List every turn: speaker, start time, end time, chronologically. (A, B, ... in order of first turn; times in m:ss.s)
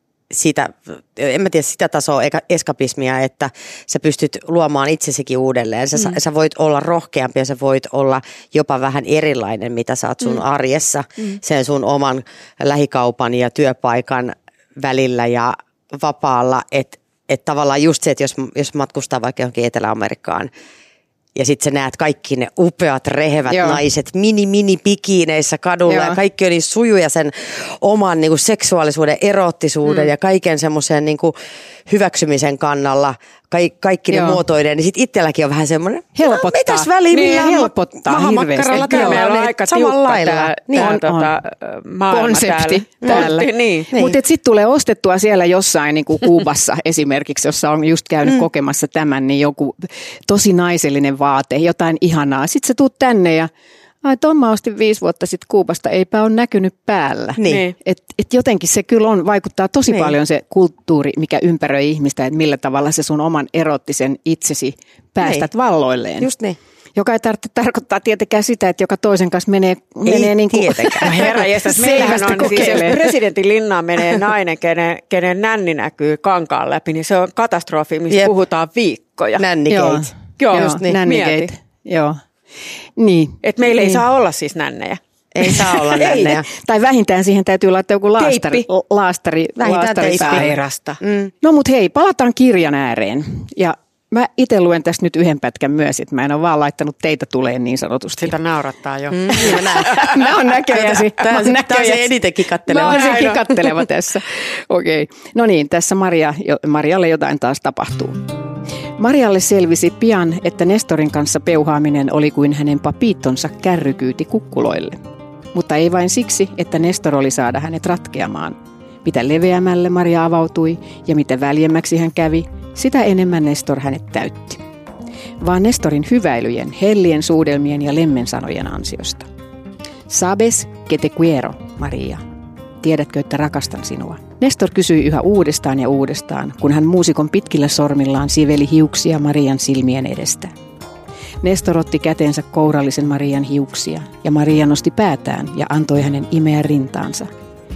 0:00.3-0:20.5 A
0:21.4-0:31.4 A
0:23.5-0:23.8 B
0:25.9-0:26.2 B
0:31.9-0:41.0 A
0:34.1-0:34.4 B
0:36.2-0:39.2 B
0:38.7-0:43.9 C
0:40.8-0:41.3 B
0:42.1-0:53.5 B
0:43.0-0:43.3 A
0:54.0-1:06.3 B
0:57.4-0:57.7 A
0:57.5-0:57.7 C
1:05.2-1:05.5 A
1:06.2-1:06.6 A
1:07.0-1:13.0 B
1:10.0-1:12.9 A
1:11.0-1:19.5 C
1:19.4-1:21.0 A
1:19.7-1:22.2 B
1:20.4-1:21.5 C
1:23.0-1:24.0 B
1:23.4-1:26.1 C
1:25.3-1:26.5 A
1:25.9-1:30.6 B
1:28.2-1:28.7 C
1:29.6-1:31.3 A
1:30.2-1:31.0 C
1:31.4-1:38.4 B
1:38.2-1:40.2 C
1:39.1-1:43.4 A
1:39.3-1:42.1 B
1:42.7-1:48.3 B
1:42.7-1:43.7 C
1:49.0-1:55.0 B
1:55.5-2:04.6 B
2:05.4-2:09.3 B
2:10.1-2:12.2 B
2:12.8-2:20.5 B
2:21.4-2:27.3 B